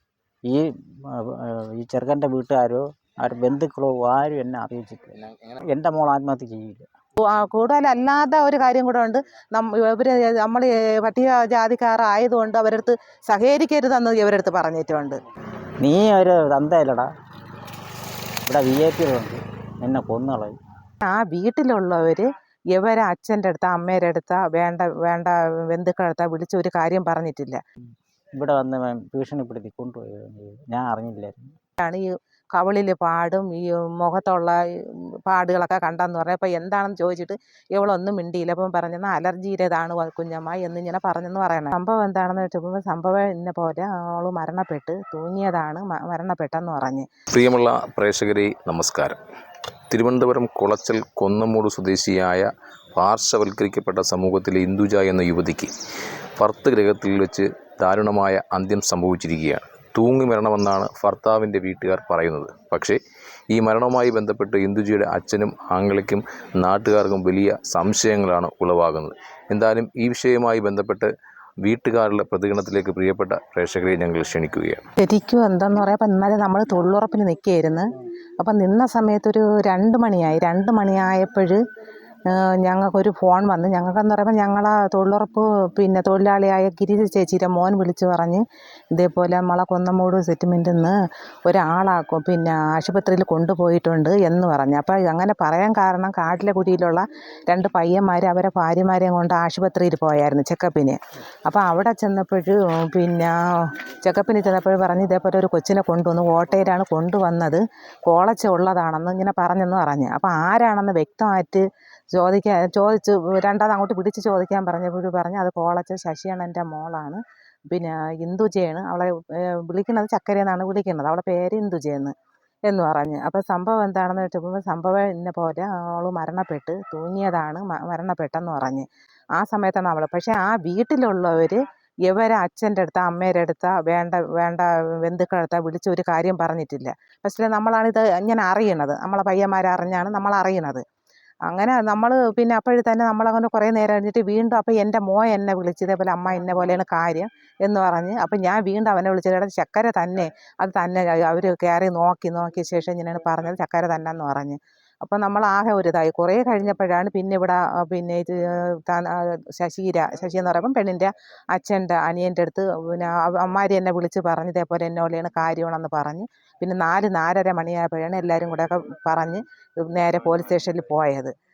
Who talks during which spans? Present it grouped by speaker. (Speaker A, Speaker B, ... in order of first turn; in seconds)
Speaker A: 0.5-6.9, 15.8-17.1, 18.4-20.6, 28.4-31.5
Speaker B: 5.1-5.6, 47.3-49.2, 49.9-55.7, 56.4-63.0, 63.5-71.1, 71.6-74.8
Speaker C: 7.2-15.2, 21.0-27.6, 31.8-34.5, 35.3-47.1, 75.0-81.6, 82.3-88.4, 88.9-90.9, 91.5-111.6, 112.1-117.2, 117.7-122.1, 122.7-128.9, 129.4-140.8, 141.5-171.3